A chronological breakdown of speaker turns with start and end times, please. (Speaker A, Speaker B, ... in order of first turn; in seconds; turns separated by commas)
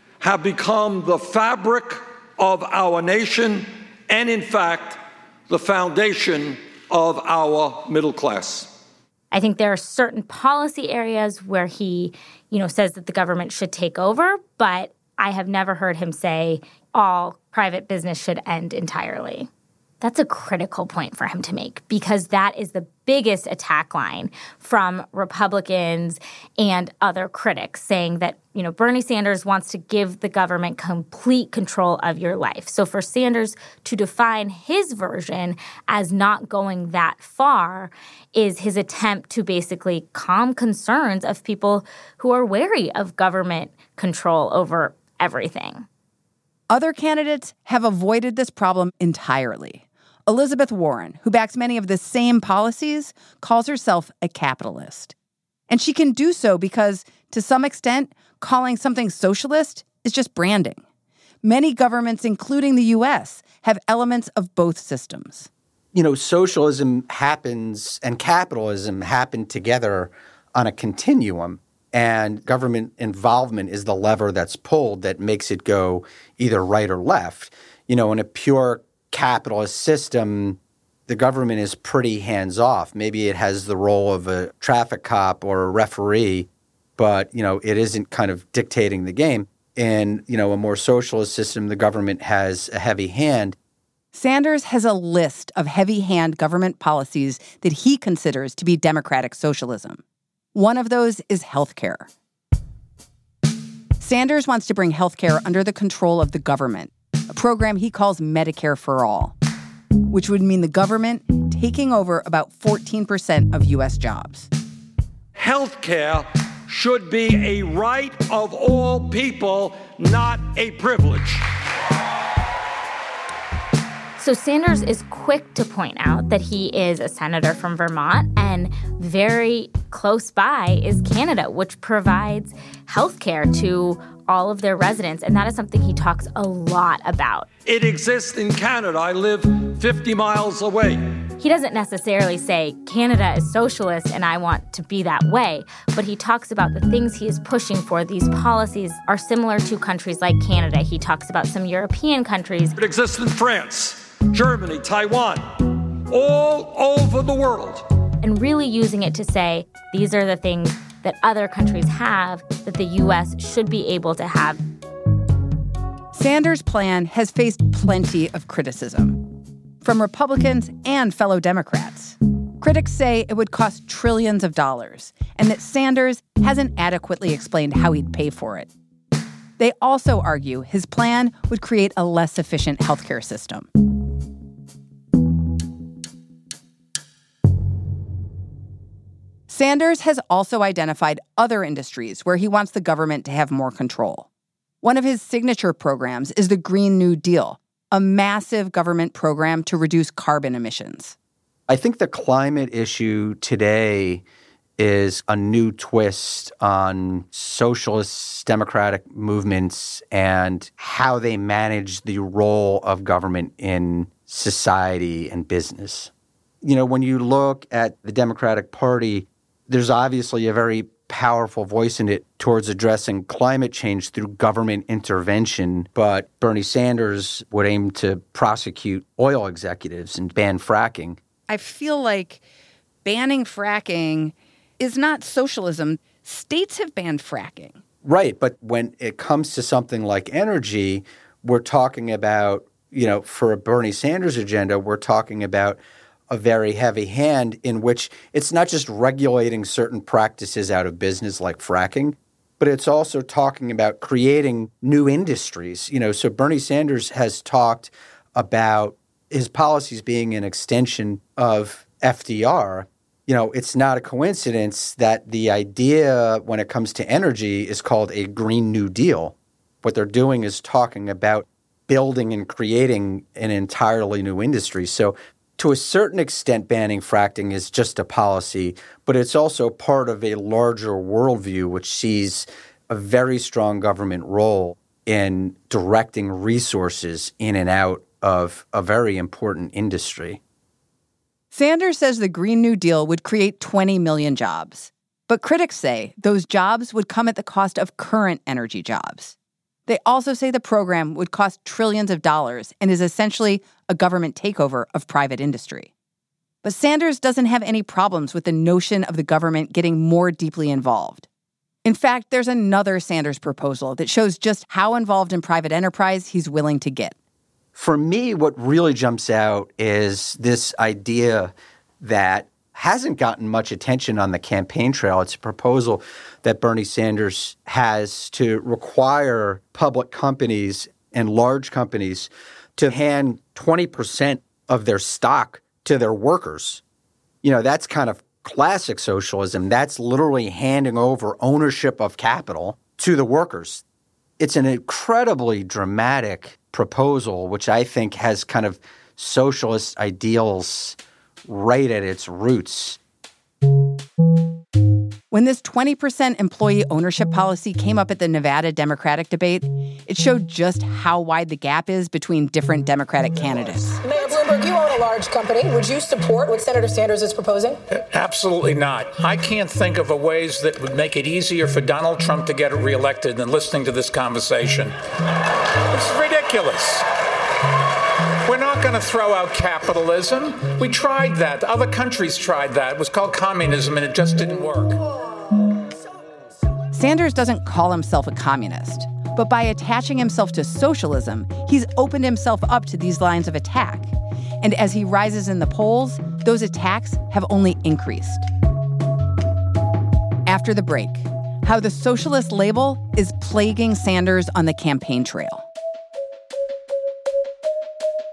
Speaker A: 0.2-8.7, Speaker B: 9.3-19.5, Speaker B: 20.0-45.9, Speaker C: 46.7-55.1, Speaker C: 55.7-60.8, Speaker C: 61.4-65.5, Speaker D: 65.9-93.6, Speaker C: 94.1-100.0, Speaker C: 100.5-102.1, Speaker C: 104.0-109.4, Speaker C: 110.1-114.5, Speaker A: 115.4-121.4, Speaker B: 124.2-137.5, Speaker A: 137.7-141.0, Speaker B: 141.4-152.8, Speaker A: 152.8-157.8, Speaker B: 158.2-164.6, Speaker C: 166.1-169.2, Speaker C: 169.8-178.7, Speaker C: 179.6-183.7, Speaker C: 189.5-194.3, Speaker C: 194.8-201.2, Speaker D: 201.7-204.2, Speaker D: 204.8-216.1, Speaker D: 216.6-231.2, Speaker C: 231.5-232.4, Speaker C: 233.1-237.8, Speaker D: 238.0-290.4, Speaker C: 291.5-299.4, Speaker C: 299.9-305.9, Speaker C: 306.6-311.3, Speaker C: 311.8-317.1, Speaker D: 317.8-336.8, Speaker D: 337.4-343.8, Speaker D: 344.4-353.0, Speaker C: 355.3-364.0, Speaker E: 364.0-367.8, Speaker F: 368.0-374.9, Speaker F: 375.9-377.1, Speaker F: 378.4-385.0, Speaker C: 386.9-398.5, Speaker C: 400.5-405.7